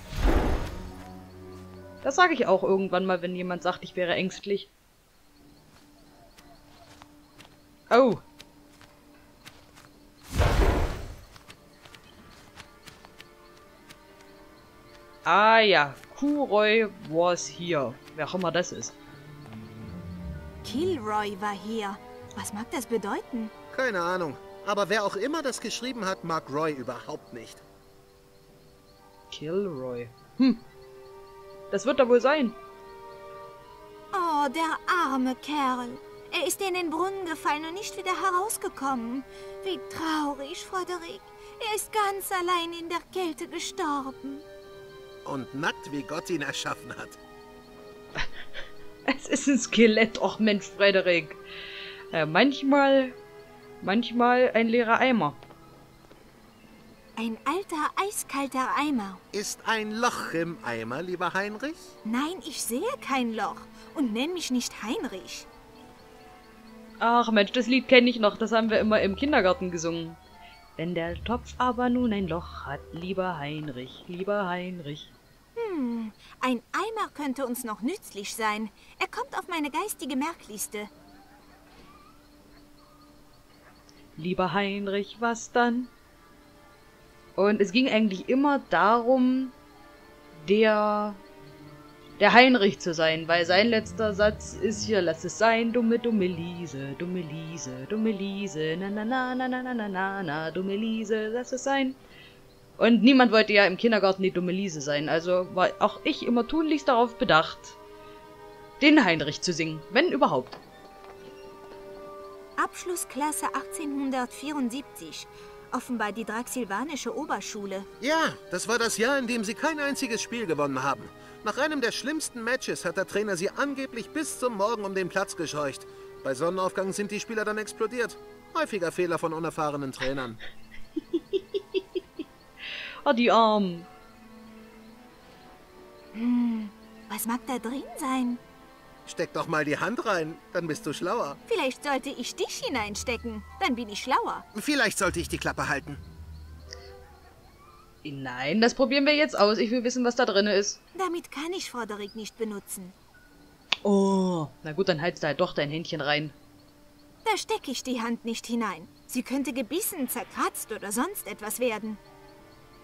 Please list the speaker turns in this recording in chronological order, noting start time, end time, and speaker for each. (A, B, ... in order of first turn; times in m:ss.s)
0:02.0-0:04.7 A
0:07.9-0:08.2 A
0:15.2-0:18.9 A
0:20.6-0:23.5 B
0:23.7-0:27.6 C
0:29.3-0:30.6 A
0:31.7-0:32.6 A
0:34.1-0:44.4 B
0:45.2-0:47.2 C
0:49.1-0:51.4 A
0:52.1-0:53.1 A
0:53.8-0:55.4 A
0:57.2-0:59.2 B
0:59.3-1:01.9 C
1:02.0-1:05.5 B
1:07.0-1:10.2 A
1:10.8-1:15.1 A
1:15.6-1:20.9 B
1:24.2-1:25.9 A
1:27.4-1:29.5 A
1:30.4-1:31.2 A
1:32.2-1:42.0 A
1:42.8-1:47.8 A
1:48.8-1:50.6 A
1:52.6-1:57.9 B
1:58.0-2:10.4 C
2:11.1-2:11.8 A
2:13.0-2:13.9 A
2:16.1-2:18.4 B
2:19.1-2:21.4 C
2:21.5-2:24.4 B
2:24.5-2:26.0 C
2:28.0-2:30.8 A
2:30.9-2:32.9 B
2:33.8-2:36.4 A
2:37.2-2:42.0 B